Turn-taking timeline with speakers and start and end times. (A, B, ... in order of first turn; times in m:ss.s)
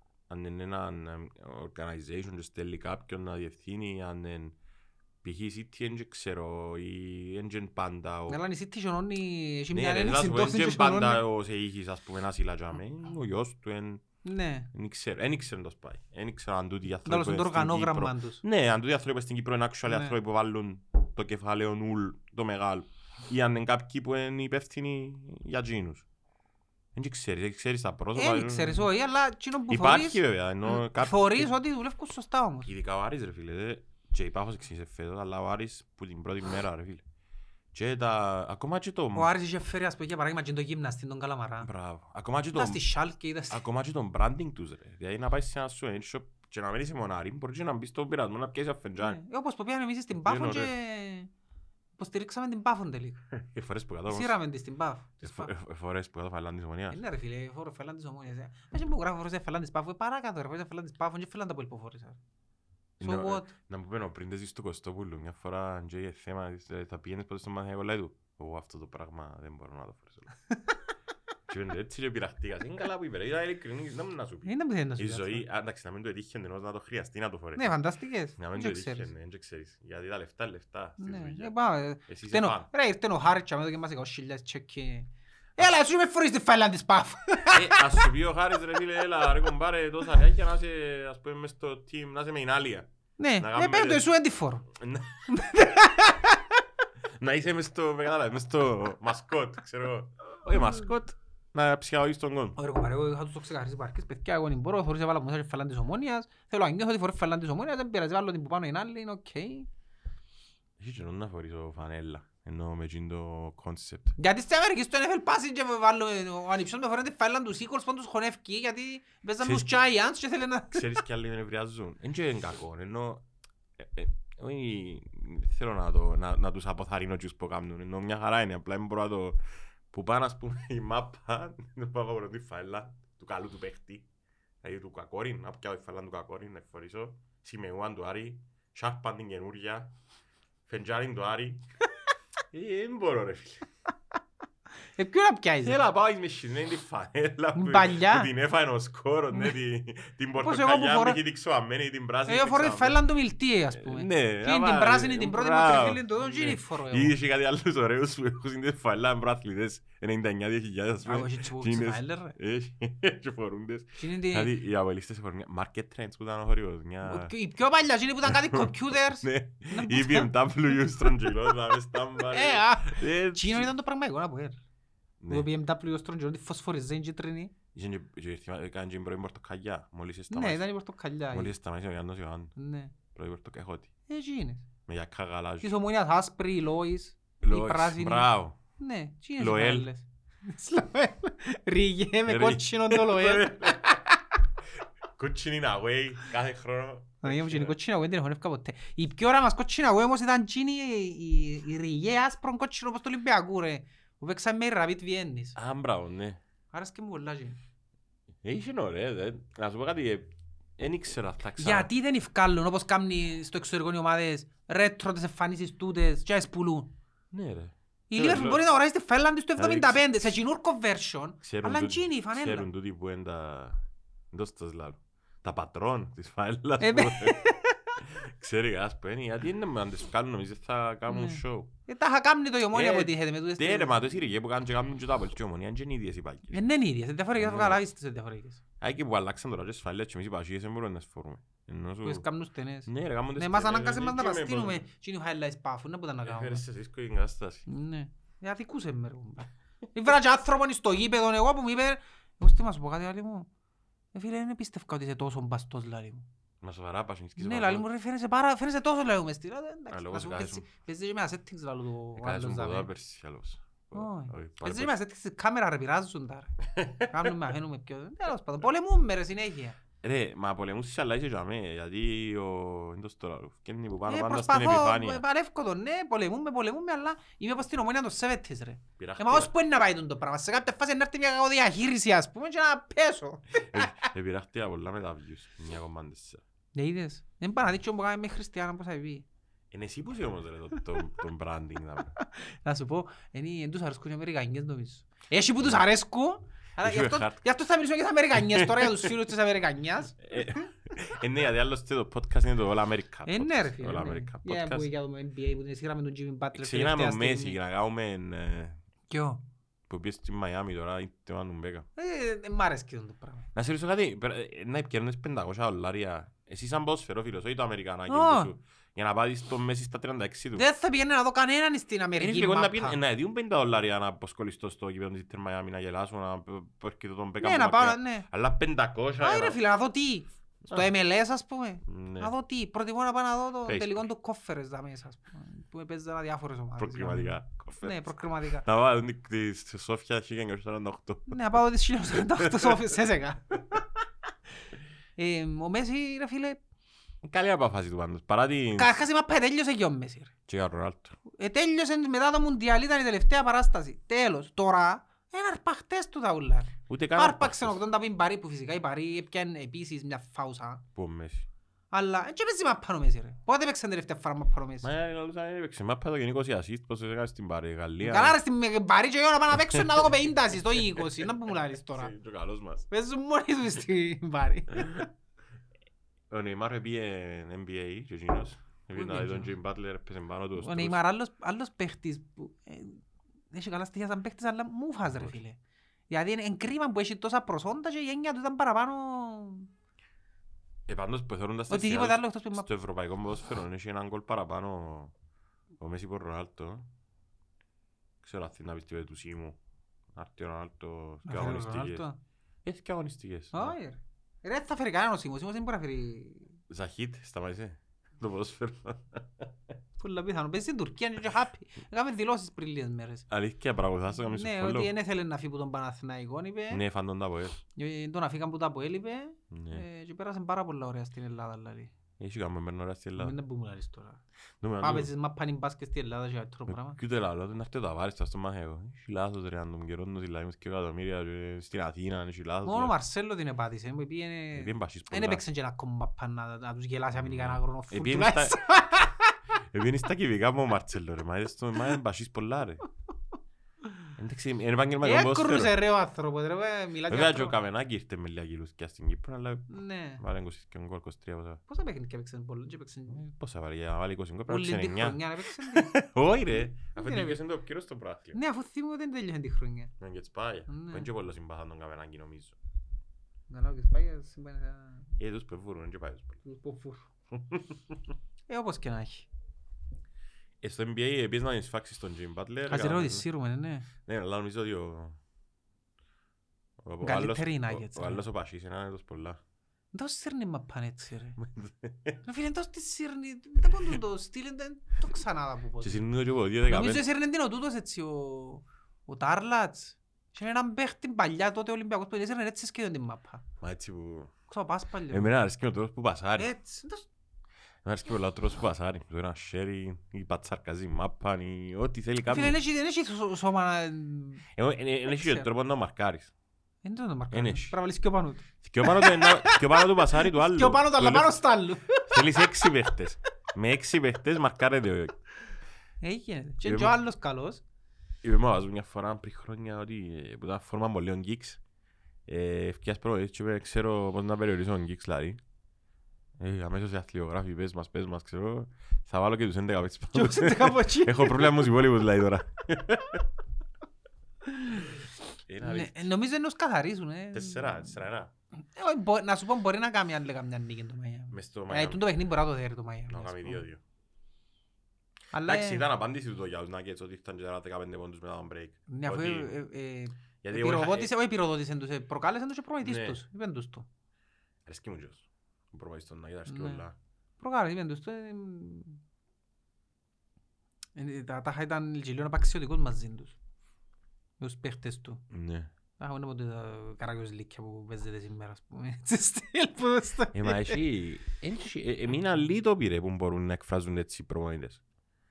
0:00.3-0:04.6 A
0:05.2-0:08.4 A
0:08.3-0:11.2 B
0:09.7-0:14.0 A
0:14.2-0:14.7 B
0:14.7-0:26.1 A
0:17.0-0:18.4 B
0:19.9-0:20.1 B
0:27.0-0:28.9 A
0:28.2-0:32.7 B
0:29.7-0:31.5 A
0:32.6-0:37.0 A
0:37.7-0:39.3 A
0:39.2-0:41.7 B
0:41.6-0:42.8 A
0:42.5-0:43.6 B
0:43.5-0:49.2 A
0:49.0-0:51.3 B
0:50.1-0:50.7 A
0:52.0-0:53.2 B
0:53.3-0:54.4 A
0:54.1-0:55.5 B
0:55.2-0:57.0 A
0:56.9-1:02.2 B
1:03.0-1:10.3 A
1:03.0-1:03.5 B
1:11.5-1:17.8 A
1:14.4-1:15.4 B
1:17.6-1:19.1 B
1:18.4-1:21.5 A
1:21.0-1:28.1 B
1:22.1-1:22.7 A
1:27.5-1:34.1 A
1:33.2-1:34.7 B
1:34.8-1:35.4 A
1:35.3-1:36.4 B
1:37.2-1:42.6 A
1:42.6-1:49.7 B
1:50.8-1:54.2 A
1:54.2-2:01.0 B
1:59.4-1:59.7 A
2:00.7-2:03.2 A
2:03.8-2:09.4 A
2:09.9-2:14.1 A
2:14.6-2:19.9 A
2:20.7-2:21.6 A
2:22.5-2:23.7 A
2:25.0-2:25.8 B
2:25.6-2:33.0 A
2:27.6-2:28.3 B
2:30.4-2:31.2 B
2:32.3-2:37.2 B
2:33.7-2:47.3 A
2:41.0-2:42.4 B
2:44.0-2:44.5 B
2:47.0-2:51.3 B
2:48.3-2:53.7 A
2:52.2-2:54.6 B
2:55.2-2:55.5 A
2:55.3-2:57.5 B
2:57.7-3:00.6 A
3:00.3-3:01.5 B
3:01.3-3:02.5 A
3:02.6-3:02.9 B
3:03.1-3:03.9 A
3:04.1-3:04.7 B
3:04.9-3:05.7 A
3:05.6-3:14.2 B
3:07.4-3:08.6 A
3:09.4-3:09.9 A
3:12.3-3:14.0 A
3:15.2-3:17.8 A
3:17.2-3:25.6 B
3:25.6-3:26.4 A
3:26.7-3:27.6 B
3:28.4-3:31.9 A
3:31.6-3:36.9 B
3:37.3-3:38.6 A
3:38.1-3:42.7 B
3:39.6-3:40.4 A
3:41.4-3:47.4 A
3:46.8-3:47.8 B
3:48.0-3:51.7 A
3:51.1-3:54.0 B
3:52.7-3:56.6 A
3:56.5-3:58.6 B
3:57.4-3:57.8 A
3:58.8-4:02.2 A
4:02.0-4:06.6 B
4:02.9-4:04.8 A
4:06.2-4:07.7 A
4:07.7-4:13.5 B
4:14.1-4:16.2 B
4:16.6-4:17.8 A
4:17.4-4:22.9 B
4:19.9-4:20.7 A
4:22.2-4:25.0 A
4:24.0-4:29.8 B
4:26.8-4:27.3 A
4:30.0-4:35.2 A
4:34.1-4:44.0 B
4:39.0-4:39.5 A
4:43.6-4:46.4 A
4:46.8-4:49.2 B
4:49.7-4:52.2 A
4:52.2-5:00.6 B
4:56.8-4:57.4 A
4:58.3-4:59.1 A
5:00.2-5:04.9 A
5:03.3-5:07.6 B
5:06.6-5:08.8 A
5:09.1-5:09.4 B
5:09.9-5:11.9 A
5:12.0-5:13.5 B
5:13.5-5:20.6 A
5:18.1-5:18.5 B
5:20.6-5:23.0 B
5:22.2-5:29.6 A
5:27.4-5:28.3 B
5:29.2-5:38.6 B
5:31.9-5:32.3 A
5:33.6-5:34.1 A
5:36.8-5:41.4 A
5:41.3-5:43.8 B
5:42.4-5:42.8 A
5:45.2-5:46.6 B
5:47.2-5:49.0 A
5:48.8-5:50.3 B
5:50.5-5:51.2 A
5:51.3-6:00.8 B
5:56.9-5:57.8 A
6:01.0-6:01.5 A
6:01.9-6:04.9 B
6:04.8-6:08.4 A
6:08.0-6:12.1 B
6:09.7-6:10.1 A
6:10.9-6:11.2 A
6:12.0-6:12.8 A
6:12.9-6:15.1 B
6:16.3-6:21.0 A
6:18.9-6:19.5 B
6:20.6-6:23.0 B
6:23.5-6:25.6 B
6:26.1-6:29.7 B
6:30.9-6:35.1 A
6:31.7-6:32.7 B
6:35.8-6:36.9 A
6:38.2-6:39.6 A
6:40.2-6:42.1 A
6:41.3-6:42.2 B
6:42.6-6:43.8 A
6:43.5-6:46.5 B
6:46.7-6:49.5 A
6:50.0-6:53.3 B
6:53.3-6:54.9 A
6:54.2-6:56.8 B
6:56.7-6:57.6 A
6:57.7-7:01.9 B
6:59.5-6:59.8 A
7:02.2-7:03.4 A
7:03.2-7:04.2 B
7:04.6-7:05.1 A
7:04.8-7:07.0 B
7:06.7-7:13.0 A
7:12.6-7:19.4 B
7:14.5-7:15.4 A
7:17.2-7:18.6 A
7:19.7-7:22.8 A
7:24.2-7:25.8 A
7:25.0-7:27.6 B
7:27.1-7:31.6 A
7:29.7-7:30.2 B
7:31.7-7:33.2 B
7:33.1-7:38.4 A
7:34.5-7:35.9 B
7:36.9-7:37.4 B
7:38.3-7:39.9 B
7:40.0-7:42.6 A
7:40.7-7:41.1 B
7:43.5-7:45.1 B
7:45.2-7:46.4 A
7:46.4-7:47.1 B
7:47.4-7:47.8 A
7:48.5-7:49.3 B
7:50.6-7:53.2 A
7:52.7-7:53.9 B
7:54.0-7:55.2 A
7:56.8-7:59.4 A
7:57.0-7:58.2 B
7:59.9-8:01.4 B
8:01.4-8:02.2 A
8:02.2-8:06.0 B
8:05.8-8:07.0 A
8:06.6-8:13.4 B
8:13.6-8:14.3 A
8:14.5-8:15.3 B
8:15.1-8:16.5 A
8:16.4-8:17.1 B
8:17.8-8:22.6 A
8:22.3-8:24.4 B
8:24.6-8:26.3 A
8:25.1-8:25.5 B
8:26.8-8:32.7 B
8:27.3-8:27.8 A
8:28.6-8:31.4 A
8:32.0-8:35.2 A
8:36.0-8:37.6 B
8:36.6-8:37.0 A
8:38.2-8:41.6 A
8:42.3-8:45.4 A
8:46.4-8:53.2 A
8:50.1-8:51.7 B
8:54.5-8:55.0 B
8:55.5-8:56.1 A
8:55.6-8:58.0 B
8:57.3-8:58.3 A
8:58.8-9:03.6 B
9:01.3-9:02.0 A
9:03.1-9:03.8 A
9:05.3-9:05.9 B
9:05.4-9:09.5 A
9:08.9-9:13.9 B
9:10.4-9:11.1 A
9:12.8-9:13.2 A
9:14.7-9:17.0 A
9:16.5-9:16.8 B
9:17.4-9:19.0 B
9:21.0-9:23.4 B
9:24.4-9:25.2 B
9:25.3-9:25.7 A
9:26.0-9:30.8 B
9:30.3-9:34.8 A